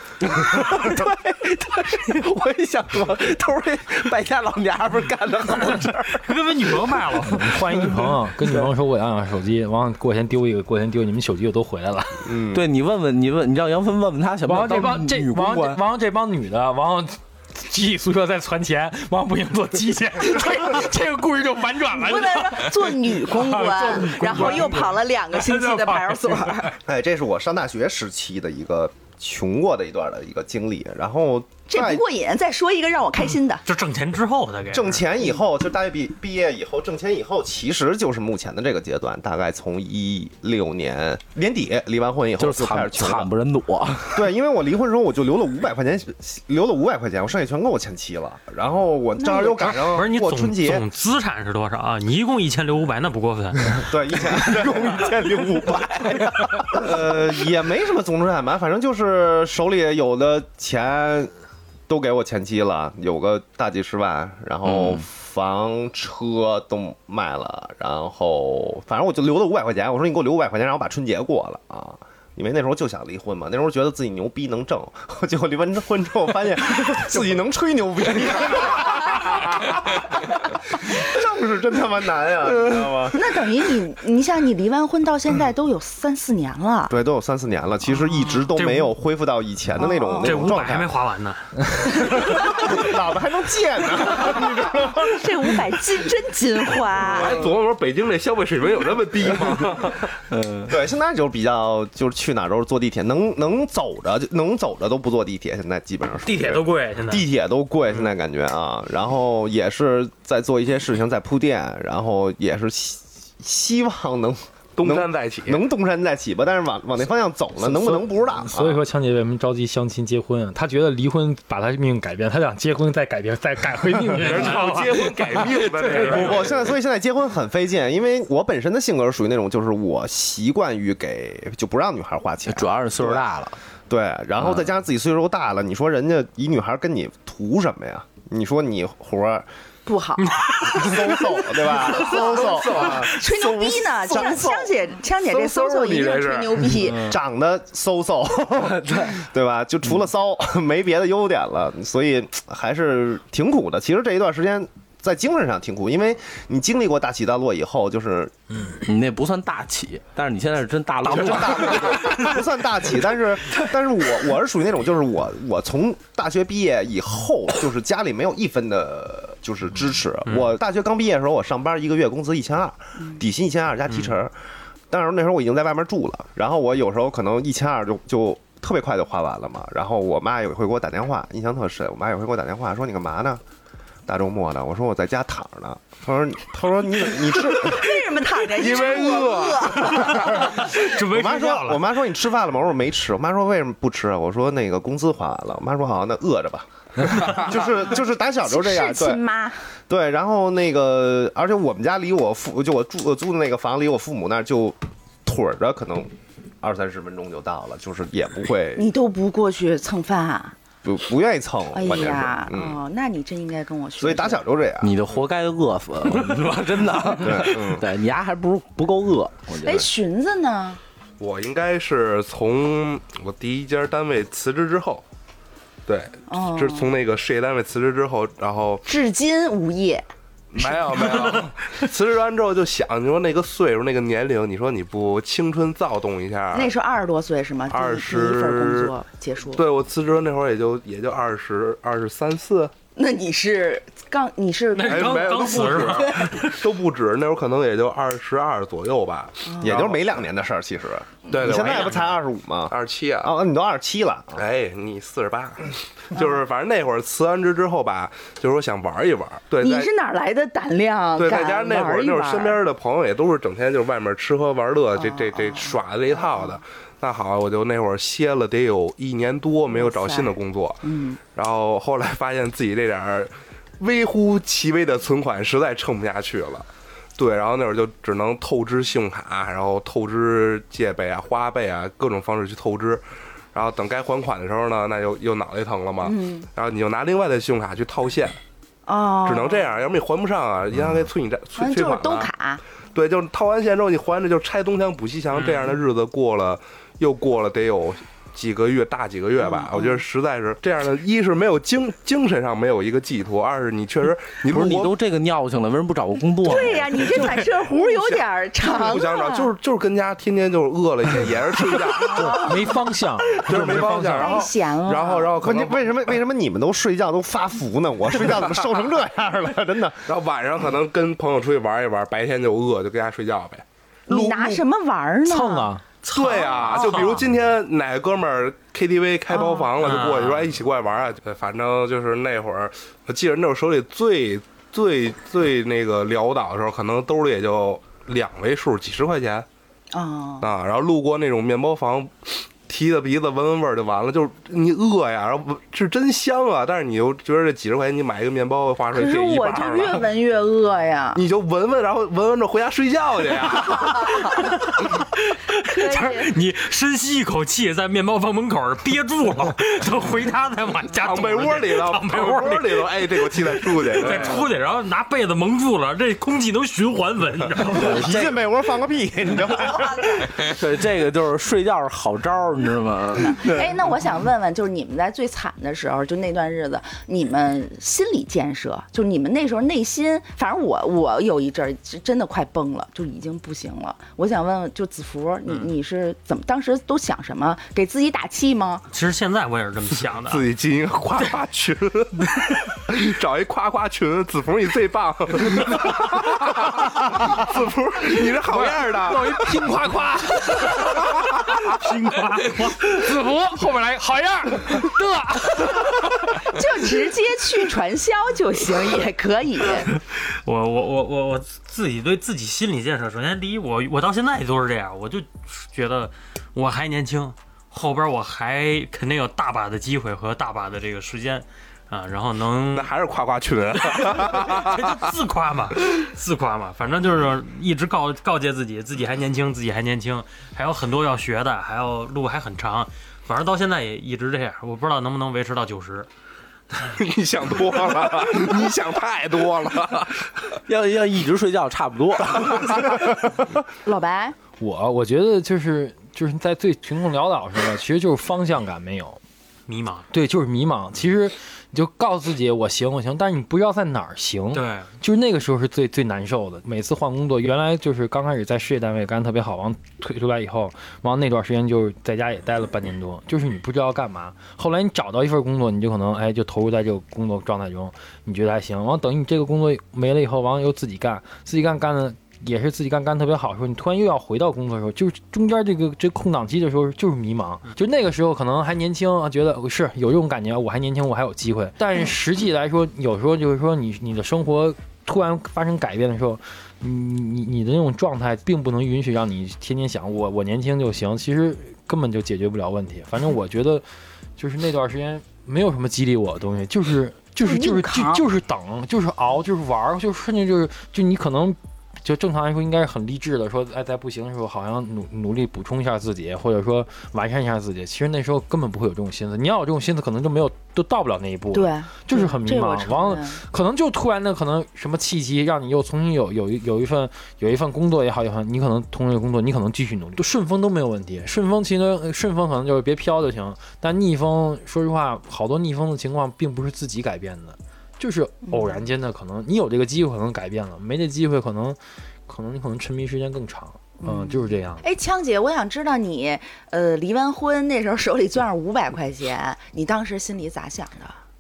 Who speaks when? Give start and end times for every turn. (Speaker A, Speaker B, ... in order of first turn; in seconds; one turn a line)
Speaker A: 0.2-6.3
Speaker B: 6.2-7.5
Speaker A: 7.1-8.7
Speaker C: 7.3-12.3
Speaker D: 12.3-12.6
Speaker A: 12.5-15.8
Speaker C: 14.5-26.5
Speaker E: 21.9-26.8
Speaker D: 26.8-32.0
Speaker E: 31.7-33.6
Speaker B: 33.7-35.0
Speaker D: 34.7-43.3
Speaker A: 42.4-44.2
Speaker D: 44.1-50.9
Speaker E: 49.2-49.8
Speaker B: 49.8-53.9
Speaker D: 53.8-61.3
Speaker D: 61.9-83.2
Speaker A: 64.7-65.0
Speaker E: 83.1-86.9
Speaker D: 86.9-91.0
Speaker B: 88.5-89.0
Speaker E: 89.8-90.4
Speaker B: 90.2-91.9
Speaker D: 91.8-95.5
Speaker E: 92.5-92.8
Speaker E: 94.9-97.4
Speaker F: 97.0-100.1
Speaker A: 100.3-100.8
Speaker D: 100.7-118.8
Speaker B: 106.2-107.3
Speaker F: 114.8-115.6
Speaker C: 117.6-126.3
Speaker F: 124.1-126.6
Speaker B: 124.5-124.8
Speaker D: 126.1-133.3
Speaker A: 132.5-133.6
Speaker D: 133.9-139.5
Speaker E: 139.9-147.2
Speaker B: 140.3-140.8
Speaker D: 140.6-144.7
Speaker F: 142.1-143.2
Speaker F: 145.2-146.9
Speaker D: 146.9-158.3
Speaker A: 148.6-149.2
Speaker A: 158.7-162.2
Speaker D: 161.0-174.4
Speaker D: 174.9-183.4
Speaker D: 184.1-188.0
Speaker E: 187.5-190.5
Speaker F: 188.5-190.1
Speaker D: 190.0-199.2
Speaker B: 190.1-191.8
Speaker E: 198.4-199.7
Speaker D: 199.9-208.9
Speaker E: 208.8-210.6
Speaker D: 210.8-212.8
Speaker E: 211.7-214.4
Speaker D: 214.0-215.0
Speaker A: 214.8-219.9
Speaker D: 217.2-217.9
Speaker E: 219.6-220.8
Speaker F: 221.2-225.1
Speaker F: 225.9-228.8
Speaker E: 226.3-226.9
Speaker E: 228.9-230.1
Speaker F: 230.5-236.7
Speaker E: 230.6-231.1
Speaker E: 236.5-239.7
Speaker F: 237.7-238.9
Speaker F: 239.5-242.7
Speaker E: 242.9-246.3
Speaker B: 244.7-246.6
Speaker F: 244.8-250.1
Speaker E: 249.5-249.8
Speaker D: 249.6-254.4
Speaker F: 251.3-253.3
Speaker F: 254.3-259.9
Speaker E: 259.6-262.6
Speaker F: 261.2-288.4
Speaker E: 264.9-266.6
Speaker E: 269.7-271.2
Speaker E: 286.0-286.5
Speaker E: 288.9-289.8
Speaker F: 289.2-292.3
Speaker E: 291.6-292.6
Speaker F: 292.9-304.9
Speaker B: 295.3-295.7
Speaker E: 299.4-300.0
Speaker A: 304.5-307.1
Speaker E: 306.4-309.5
Speaker F: 307.1-312.4
Speaker E: 312.0-312.8
Speaker C: 312.1-314.5
Speaker F: 313.4-316.0
Speaker E: 313.7-315.4
Speaker D: 315.4-320.1
Speaker F: 320.1-324.5
Speaker E: 324.1-325.7
Speaker C: 325.3-325.8
Speaker B: 326.1-327.3
Speaker F: 326.1-339.5
Speaker E: 326.6-327.0
Speaker E: 329.3-329.7
Speaker B: 329.8-330.5
Speaker E: 339.9-340.5
Speaker F: 340.4-350.1
Speaker E: 348.9-351.2
Speaker F: 351.1-354.3
Speaker E: 353.7-354.7
Speaker B: 354.4-368.1
Speaker E: 355.6-356.4
Speaker F: 361.0-364.5
Speaker A: 367.8-368.3
Speaker D: 367.8-370.3
Speaker E: 369.7-370.2
Speaker A: 370.4-373.7
Speaker E: 373.3-388.9
Speaker B: 388.9-390.4
Speaker F: 390.2-399.5
Speaker C: 398.5-401.2
Speaker B: 401.7-402.9
Speaker C: 402.5-405.9
Speaker E: 406.3-409.9
Speaker B: 410.1-422.9
Speaker F: 422.7-425.0
Speaker B: 423.8-436.1
Speaker F: 436.9-440.3
Speaker A: 440.7-443.0
Speaker E: 443.8-444.4
Speaker C: 444.6-449.2
Speaker B: 449.7-450.1
Speaker C: 450.1-493.8
Speaker B: 454.5-454.9
Speaker C: 494.4-534.9
Speaker E: 497.4-498.2
Speaker E: 511.5-513.4
Speaker E: 528.5-528.8
Speaker E: 534.0-541.2